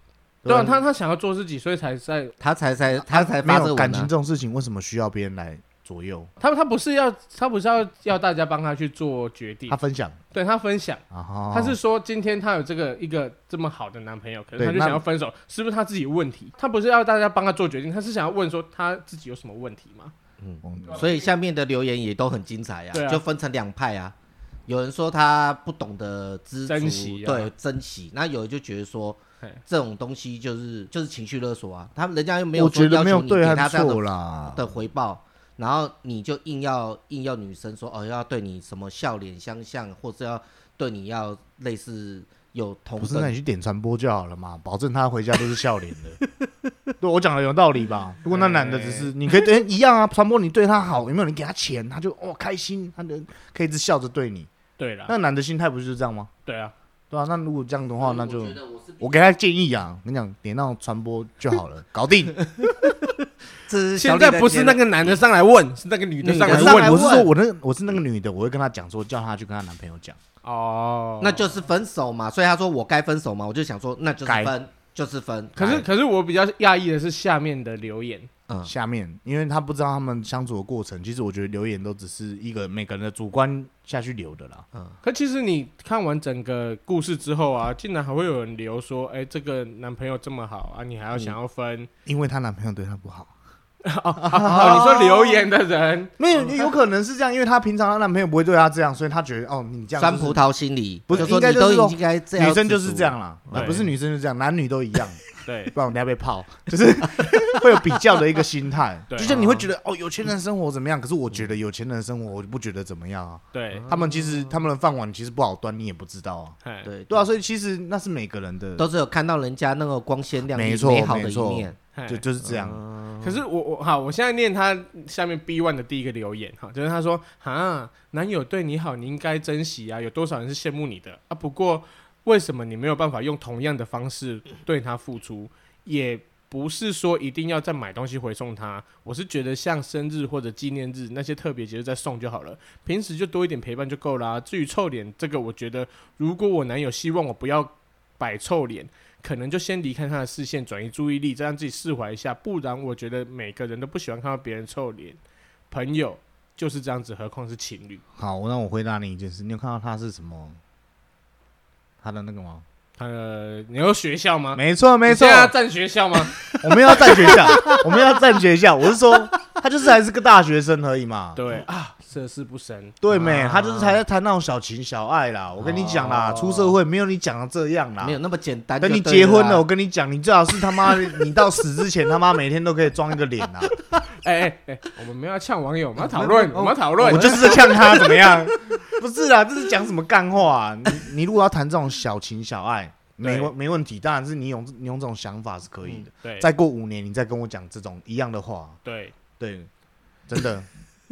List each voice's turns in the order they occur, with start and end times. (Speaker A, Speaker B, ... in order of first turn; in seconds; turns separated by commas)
Speaker A: 0.4-0.8, Speaker B: 0.5-2.3, Speaker C: 2.4-4.1, Speaker A: 3.0-6.3, Speaker B: 6.4-9.8, Speaker A: 9.7-10.2, Speaker B: 10.3-20.1, Speaker A: 11.1-11.8, Speaker A: 14.6-15.0, Speaker C: 20.4-24.1, Speaker A: 20.6-21.1, Speaker B: 22.9-23.2, Speaker C: 24.7-43.3, Speaker B: 26.7-27.5, Speaker A: 32.5-34.7, Speaker A: 43.0-46.2, Speaker A: 47.0-54.5, Speaker B: 48.3-49.1, Speaker B: 54.8-55.1, Speaker A: 55.1-56.3, Speaker B: 56.5-56.7, Speaker A: 57.1-62.4, Speaker C: 63.7-65.2, Speaker B: 64.0-67.2, Speaker C: 66.2-67.3, Speaker A: 66.5-70.2, Speaker B: 70.4-71.5, Speaker C: 71.2-75.8, Speaker A: 74.3-74.5, Speaker A: 75.6-75.8, Speaker B: 75.6-78.3, Speaker A: 78.7-84.7, Speaker B: 85.0-91.9, Speaker A: 92.1-93.3, Speaker B: 93.8-96.7, Speaker A: 94.2-95.5, Speaker A: 96.2-100.4, Speaker C: 100.0-103.8, Speaker A: 101.1-105.2, Speaker B: 103.5-103.9, Speaker B: 105.5-105.7, Speaker A: 105.7-116.6, Speaker C: 107.2-107.6, Speaker B: 109.1-109.4, Speaker C: 109.2-109.7, Speaker B: 113.5-113.9, Speaker C: 113.8-114.7, Speaker B: 116.6-116.9, Speaker C: 116.8-117.3, Speaker A: 117.1-118.9, Speaker C: 118.8-121.8, Speaker A: 120.5-122.8, Speaker B: 122.0-122.2, Speaker C: 122.4-123.4, Speaker B: 123.2-158.0, Speaker A: 158.2-160.6, Speaker A: 162.0-162.6, Speaker B: 163.0-166.4, Speaker A: 164.6-165.5, Speaker C: 166.4-168.0, Speaker A: 166.6-171.4, Speaker B: 171.3-173.0, Speaker A: 173.0-178.2, Speaker C: 173.1-174.0, Speaker C: 175.6-176.8, Speaker C: 178.0-179.7, Speaker A: 178.8-183.8, Speaker C: 180.8-181.1, Speaker B: 184.1-187.8, Speaker C: 186.1-188.5, Speaker A: 187.0-198.8, Speaker B: 193.2-193.5, Speaker B: 196.2-196.5, Speaker B: 198.8-199.2, Speaker A: 199.4-199.7, Speaker A: 200.3-200.7